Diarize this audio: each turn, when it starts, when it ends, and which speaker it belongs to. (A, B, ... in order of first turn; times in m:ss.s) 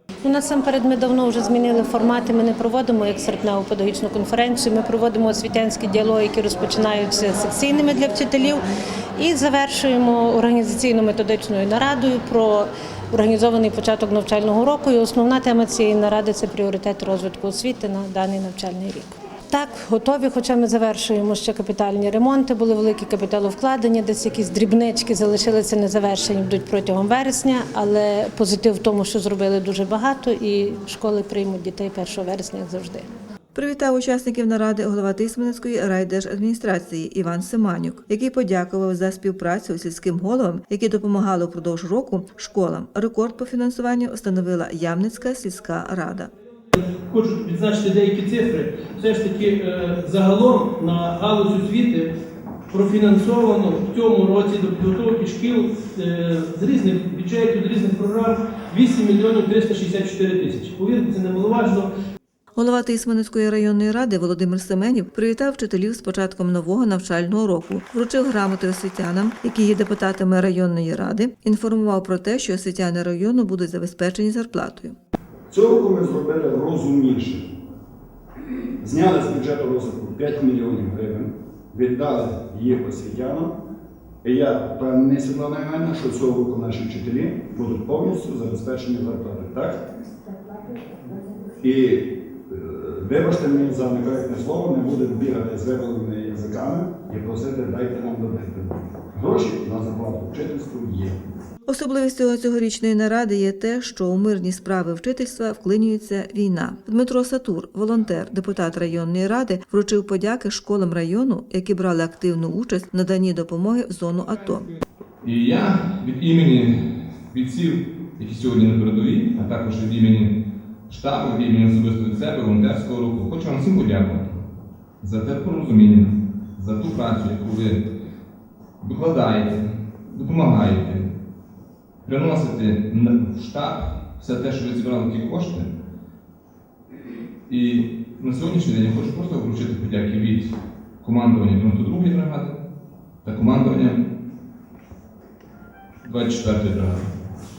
0:00.2-0:08.6 A
0:09.2-0:33.1 A
0:33.6-0:46.3 B
0:47.1-0:52.1 C
0:52.7-1:01.9 C
1:02.6-1:15.0 B
1:15.5-1:17.5 D
1:18.8-1:23.5 D
1:24.2-1:29.9 D
1:31.6-1:41.2 D
1:41.7-1:54.7 B
1:55.2-2:00.4 E
2:00.9-2:04.4 E
2:05.0-2:07.9 E
2:08.8-2:11.1 E
2:12.0-2:15.7 E
2:17.5-2:22.6 E
2:23.2-2:24.0 E
2:26.0-2:27.1 E